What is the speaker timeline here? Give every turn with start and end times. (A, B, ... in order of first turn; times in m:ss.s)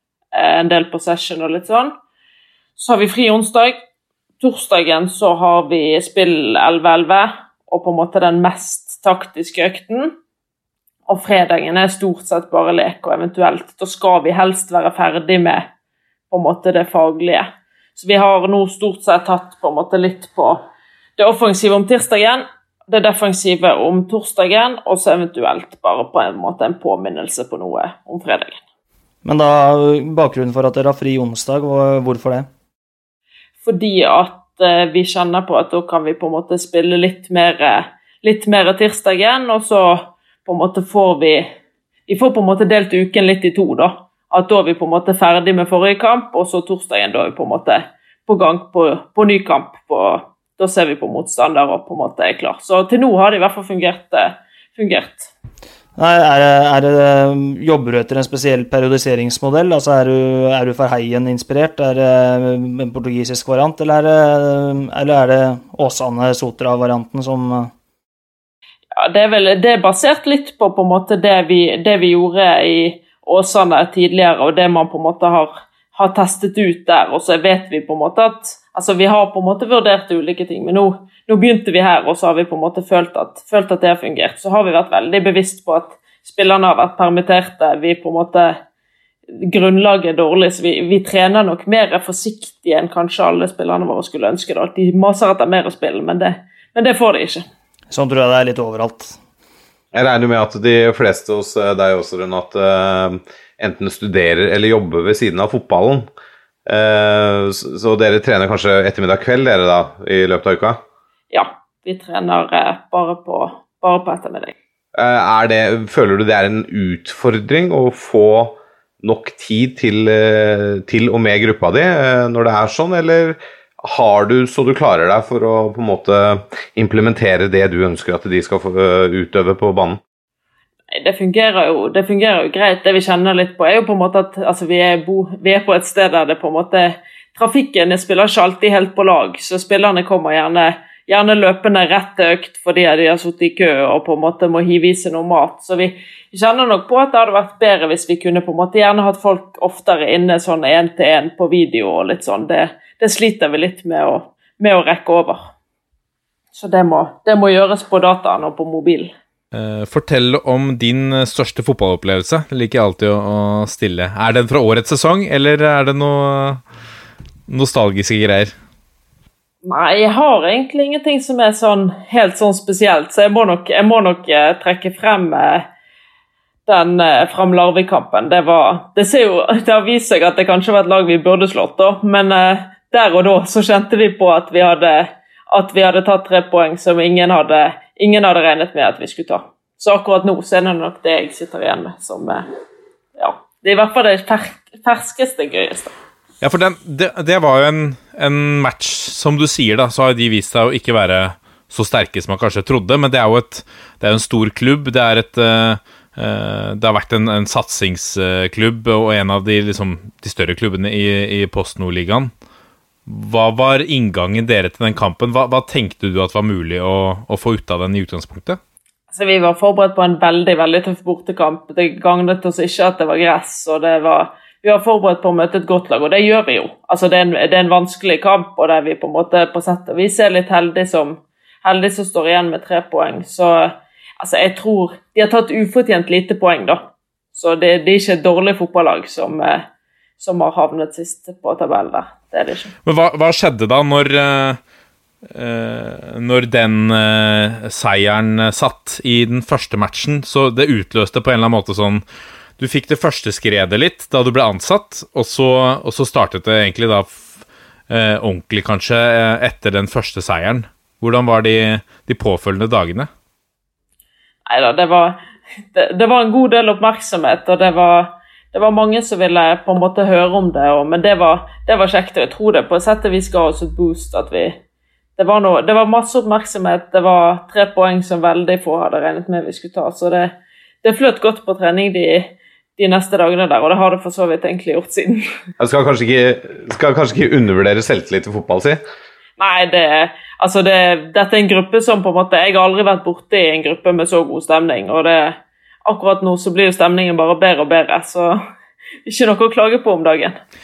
0:00.3-0:01.9 A
0:02.8-0:03.8 A
0:04.4-0:10.1 A
0:11.1-0:15.7 A
0:16.3-0:20.6 A
0:21.2-0:28.6 A
0:29.2-0:32.5 B
0:33.6-0:41.5 A
0:42.1-0:55.3 A
0:56.0-1:07.7 B
1:08.9-1:28.6 A
1:29.3-1:37.4 A
1:37.9-1:39.2 B
1:39.9-1:46.1 C
1:46.7-1:50.8 C
1:51.3-1:54.5 A
1:55.0-2:10.0 C
2:10.9-2:35.5 A
2:36.6-2:39.1 A
2:39.5-2:46.6 D
2:47.5-2:48.5 D
2:49.6-2:55.6 A
2:56.7-3:12.5 A
3:13.2-3:15.9 A
3:16.4-3:32.3 D
3:33.1-3:38.6 D
3:39.1-3:56.8 A
3:57.4-3:59.6 A
4:00.2-4:02.7 A
4:02.8-4:04.6 D
4:05.3-4:12.0 D
4:12.6-4:17.3 D
4:17.9-4:23.1 D
4:24.5-4:25.2 A
4:25.7-4:34.6 A
4:35.2-4:45.2 A
4:45.6-4:48.8 C
4:49.4-4:58.4 A
4:59.1-5:00.4 A